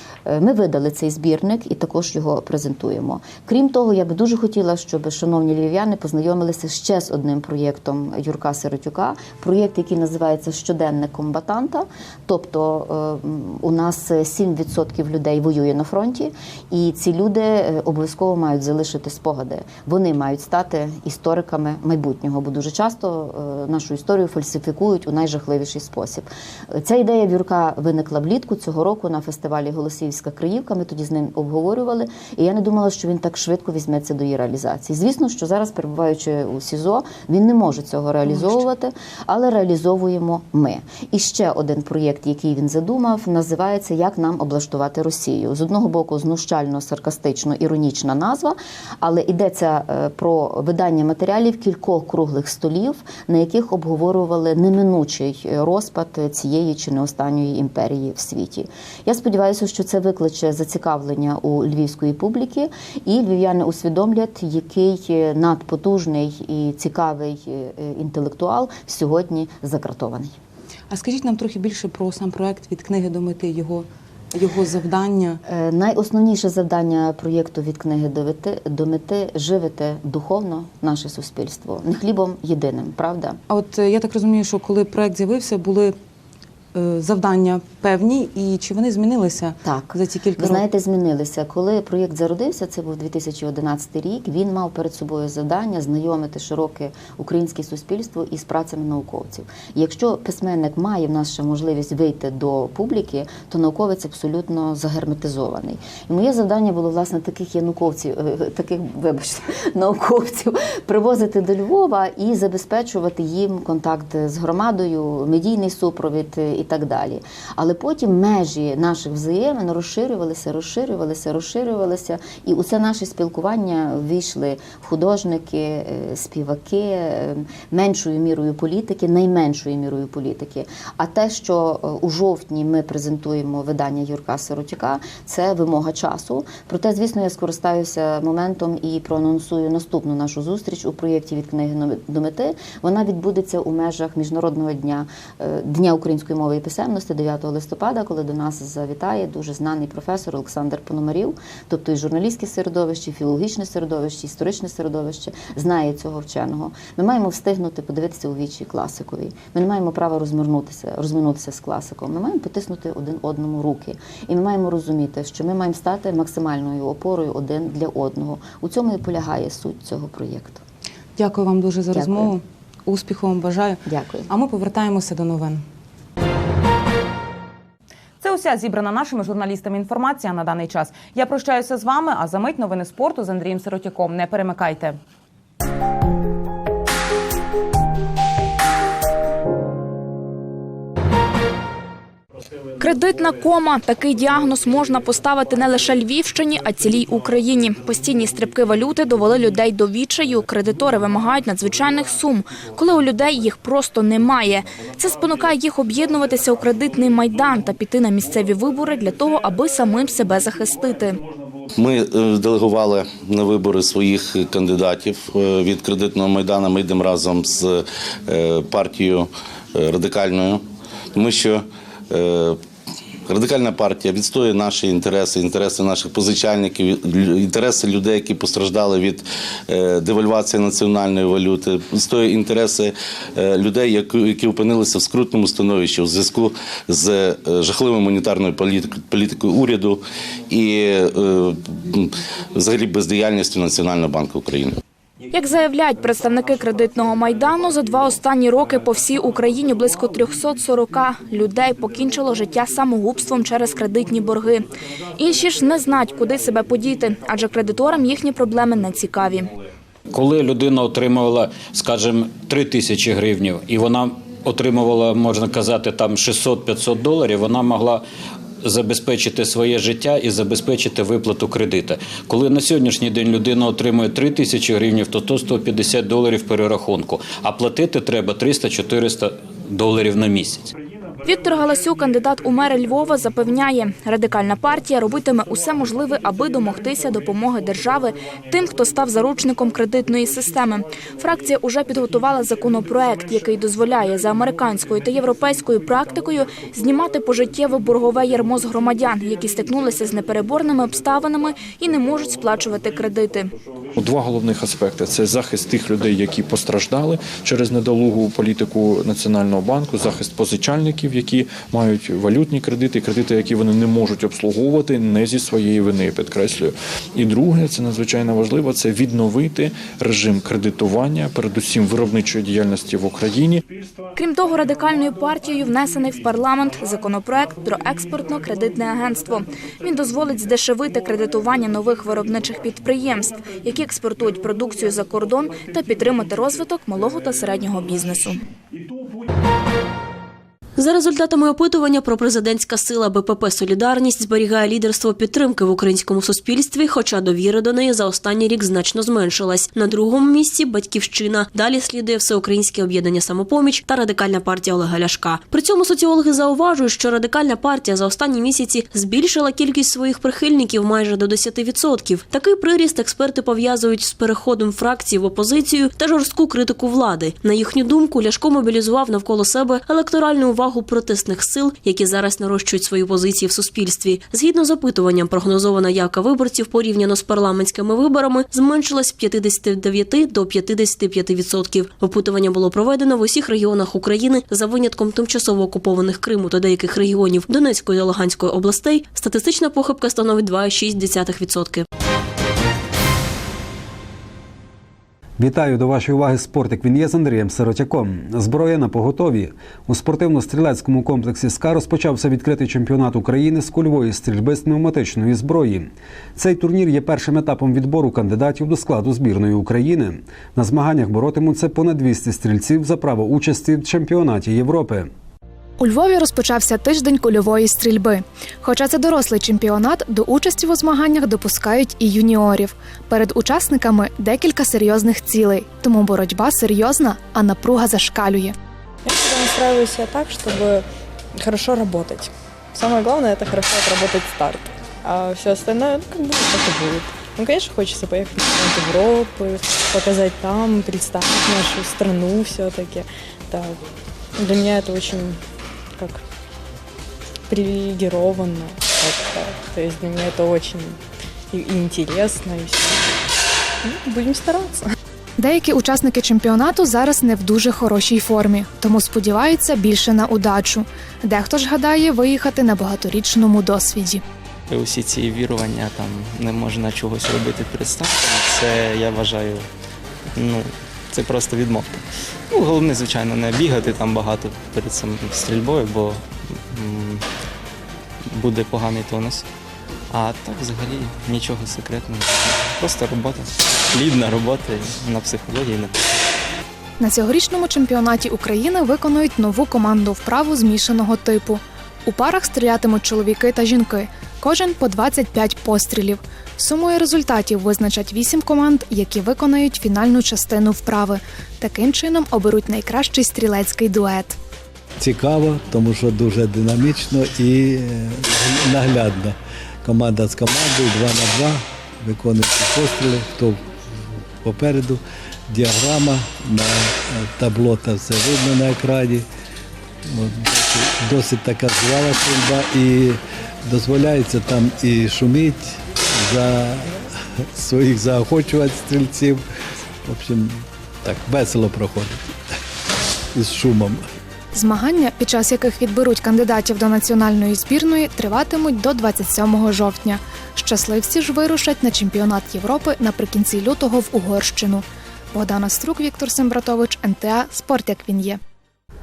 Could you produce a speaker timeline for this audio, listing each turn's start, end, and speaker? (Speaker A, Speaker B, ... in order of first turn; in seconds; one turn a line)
Speaker A: 0.2-70.3
Speaker B: 38.3-38.6
Speaker B: 70.9-75.4
Speaker A: 75.4-83.4
Speaker B: 83.5-85.9
Speaker B: 86.7-90.6
Speaker A: 89.6-170.6
Speaker B: 171.2-175.6
Speaker A: 171.9-172.3
Speaker A: 173.8-174.3
Speaker B: 178.2-185.0
Speaker C: 192.8-211.2
Speaker D: 211.8-220.6
Speaker D: 221.1-222.6
Speaker D: 223.3-244.8
Speaker C: 245.3-254.7
Speaker C: 255.2-259.5
Speaker E: 260.1-268.0
Speaker E: 268.6-280.7
Speaker C: 281.2-303.5
Speaker F: 303.9-323.6
Speaker C: 324.1-338.4
Speaker G: 340.8-391.8
Speaker H: 395.4-415.1
Speaker I: 415.8-428.5
Speaker J: 429.1-430.8
Speaker J: 431.4-443.8
Speaker J: 444.4-445.4
Speaker J: 447.5-451.0
Speaker J: 451.5-452.9
Speaker J: 453.8-454.8
Speaker I: 455.4-464.2
Speaker K: 468.1-469.6
Speaker K: 471.1-471.9
Speaker K: 472.5-476.1
Speaker K: 476.7-477.1
Speaker K: 478.5-479.4
Speaker K: 480.1-485.9
Speaker I: 487.0-504.4
Speaker L: 505.0-513.7
Speaker L: 514.4-519.2
Speaker L: 520.1-529.4
Speaker L: 530.0-532.3
Speaker L: 533.3-534.0
Speaker I: 534.5-548.4